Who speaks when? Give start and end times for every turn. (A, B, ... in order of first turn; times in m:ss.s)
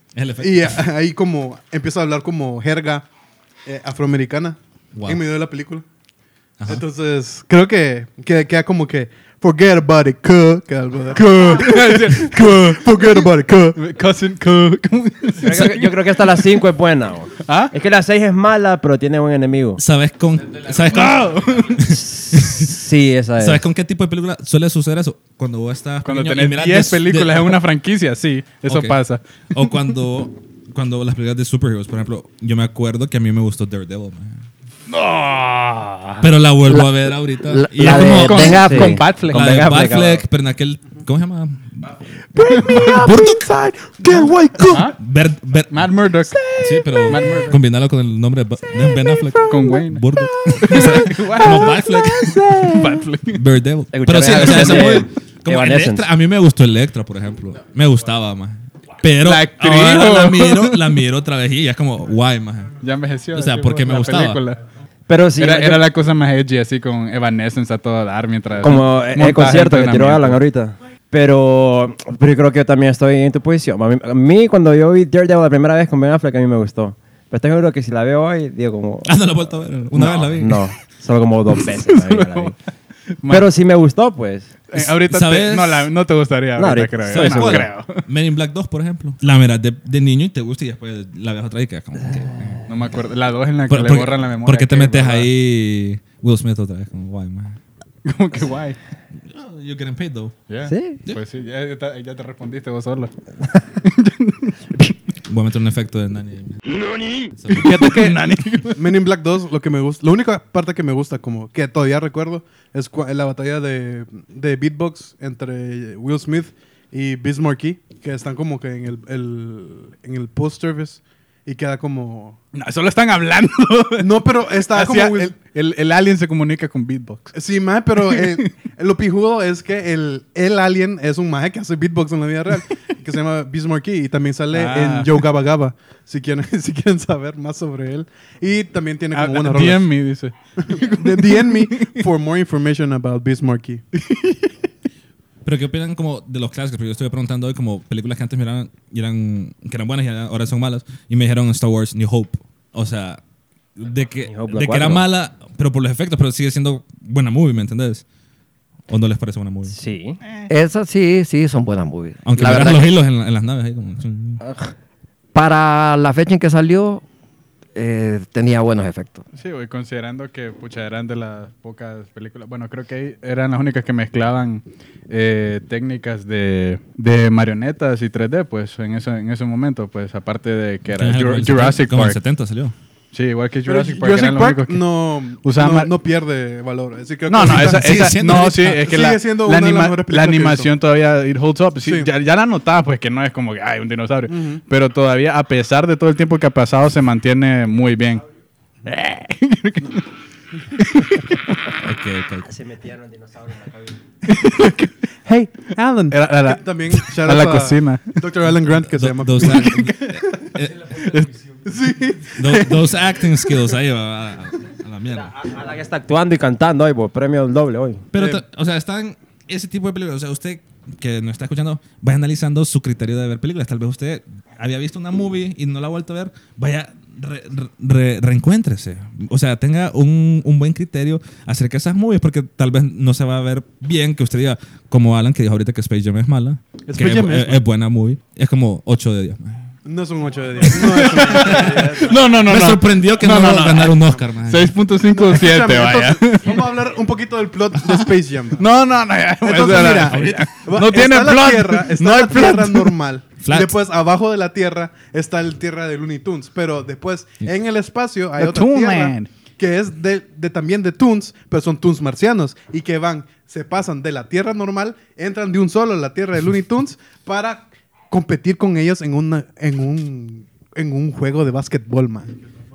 0:00.1-0:00.8 A
0:00.4-0:03.1 B
0:03.6-0:05.8 B
0:04.9-0:05.2 A
0:06.6-0:13.8 B
0:11.4-0:12.8 C
0:13.8-0:16.2 C
0:15.4-0:19.8 D
0:17.4-0:17.7 C
0:19.8-0:22.7 A
0:20.8-0:21.8 C
0:21.8-0:23.6 D
0:23.4-0:27.6 A
0:26.0-0:29.2 C
0:28.7-0:43.5 A
0:37.5-0:38.9 E
0:37.8-0:40.2 D
0:38.0-0:39.5 C
0:42.4-0:44.8 D
0:42.4-0:43.1 C
0:44.0-0:45.9 A
0:44.7-0:45.0 C
0:45.7-0:46.4 C
0:46.4-0:47.3 D
0:46.6-0:52.5 A
0:47.0-0:47.6 C
0:48.8-0:53.0 D
0:49.4-0:52.0 C
0:52.5-0:53.4 C
0:53.3-1:02.8 A
0:53.9-0:56.1 D
0:54.4-0:54.9 C
0:59.2-1:00.8 C
1:02.8-1:04.6 C
1:03.3-1:04.4 A
1:05.1-1:06.0 D
1:05.4-1:10.4 C
1:08.6-1:19.2 D
1:19.0-1:20.6 A
1:19.9-1:22.5 D
1:21.9-1:22.5 C
1:23.2-1:23.5 C
1:23.3-1:24.6 D
1:24.7-1:28.0 C
1:24.7-1:25.9 A
1:26.6-1:27.7 D
1:27.1-1:32.6 A
1:32.7-1:35.3 C
1:33.7-1:37.6 A
1:38.0-1:38.8 C
1:39.3-1:40.4 A
1:40.5-1:43.1 C
1:40.6-1:41.0 D
1:43.8-1:44.9 C
1:45.2-1:46.6 A
1:47.4-1:48.2 A
1:47.5-1:48.8 C
1:48.7-2:02.4 B
2:02.5-2:04.1 C
2:04.0-2:05.3 B
2:04.7-2:07.3 C
2:07.3-2:19.9 B
2:08.1-2:08.5 C
2:14.5-2:15.1 C
2:19.1-2:21.9 C
2:20.6-2:23.8 B
2:24.0-2:24.5 C
2:25.4-2:33.2 A
2:33.8-2:38.0 A
2:34.3-2:35.0 D
2:38.9-2:39.8 A
2:39.7-2:40.2 D
2:40.5-2:42.9 E
2:42.2-2:44.4 A
2:44.4-2:44.7 D
2:45.3-2:47.0 E
2:47.7-2:49.2 E
2:49.4-3:02.2 C
3:00.9-3:02.7 A
3:03.1-3:04.8 C
3:03.6-3:08.2 B
3:05.4-3:05.9 C
3:07.3-3:18.2 C
3:07.4-3:09.0 A
3:08.7-3:10.7 B
3:11.8-3:12.1 B
3:14.3-3:14.6 B
3:18.8-3:20.0 C
3:20.7-3:21.4 C
3:21.8-3:22.5 A
3:22.4-3:24.0 D
3:24.2-3:24.9 C
3:25.2-3:29.9 B
3:26.1-3:28.2 C
3:29.0-3:31.0 A
3:29.5-3:31.4 C
3:31.6-3:32.6 B
3:32.4-3:35.3 A
3:35.1-3:38.0 D
3:38.1-3:59.7 A
3:38.1-3:38.4 B
3:56.9-3:57.6 B
3:59.8-4:02.2 B
4:00.7-4:06.5 C
4:01.3-4:04.7 A
4:05.2-4:08.6 B
4:08.6-4:12.9 C
4:09.4-4:32.3 B
4:09.9-4:10.6 A
4:13.4-4:13.7 A
4:18.4-4:19.3 C